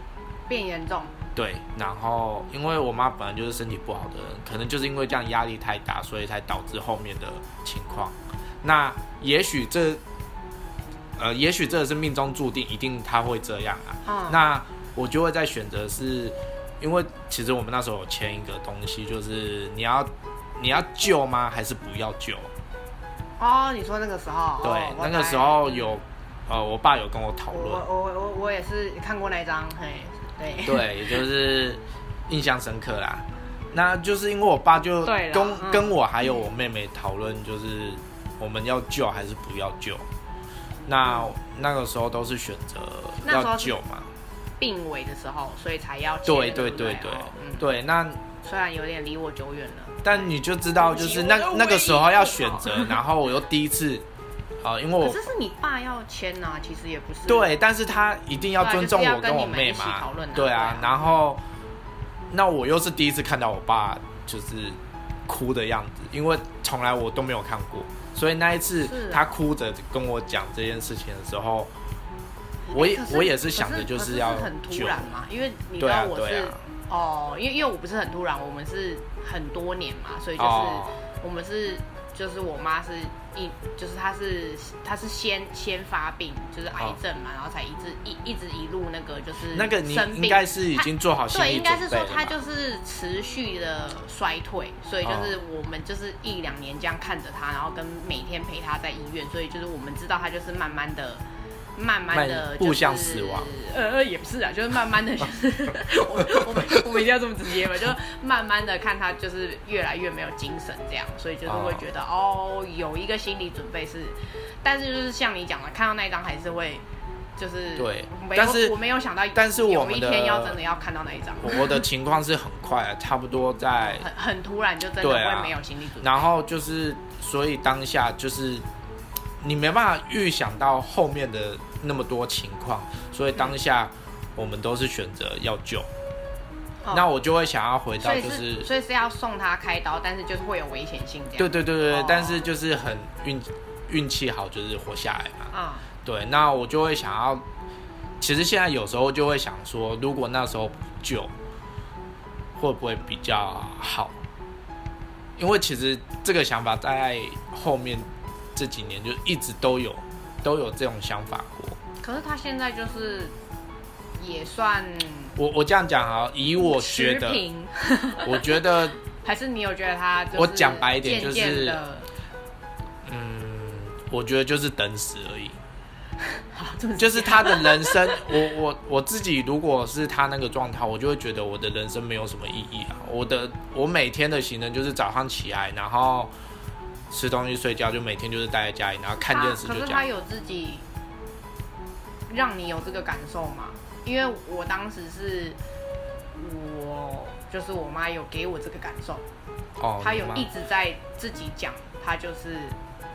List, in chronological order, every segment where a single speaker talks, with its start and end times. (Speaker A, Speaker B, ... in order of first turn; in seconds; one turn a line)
Speaker A: 0.5-1.1
Speaker B: 1.3-10.0
Speaker B: 11.2-22.5
Speaker A: 14.1-14.4
Speaker A: 23.4-26.0
Speaker B: 24.6-27.9
Speaker A: 27.5-31.2
Speaker B: 30.6-40.1
Speaker A: 35.0-36.5
Speaker B: 40.9-44.1
Speaker A: 41.0-41.3
Speaker A: 43.2-43.8
Speaker A: 44.6-47.7
Speaker B: 46.2-48.2
Speaker A: 48.4-53.0
Speaker B: 50.0-54.0
Speaker B: 54.6-55.2
Speaker A: 55.0-57.5
Speaker B: 57.3-61.4
Speaker A: 58.6-61.1
Speaker B: 62.3-71.7
Speaker A: 68.8-69.3
Speaker A: 72.7-101.2
Speaker B: 72.7-75.1
Speaker B: 75.8-76.6
Speaker B: 80.4-81.0
Speaker B: 89.5-92.3
Speaker B: 95.0-95.3
Speaker A: 101.8-116.8
Speaker B: 102.1-103.5
Speaker B: 111.5-111.8
Speaker A: 117.4-121.8
Speaker B: 117.8-118.8
Speaker B: 119.3-120.6
Speaker B: 121.4-124.1
Speaker A: 123.9-126.2
Speaker B: 125.0-128.6
Speaker B: 129.4-135.9
Speaker B: 136.9-138.7
Speaker A: 138.0-142.4
Speaker B: 141.4-145.5
Speaker A: 145.5-145.9
Speaker B: 146.1-147.4
Speaker B: 148.2-151.3
Speaker B: 152.6-154.2
Speaker B: 155.4-161.8
Speaker A: 162.0-163.3
Speaker A: 164.2-165.4
Speaker B: 165.4-167.4
Speaker A: 166.6-172.1
Speaker B: 168.2-169.0
Speaker B: 170.3-171.8
Speaker B: 173.0-175.6
Speaker A: 176.4-178.3
Speaker B: 177.0-186.3
Speaker B: 187.1-190.0
Speaker A: 189.1-190.8
Speaker A: 192.3-195.6
Speaker A: 196.3-199.2
Speaker B: 199.8-200.5
Speaker A: 200.0-202.8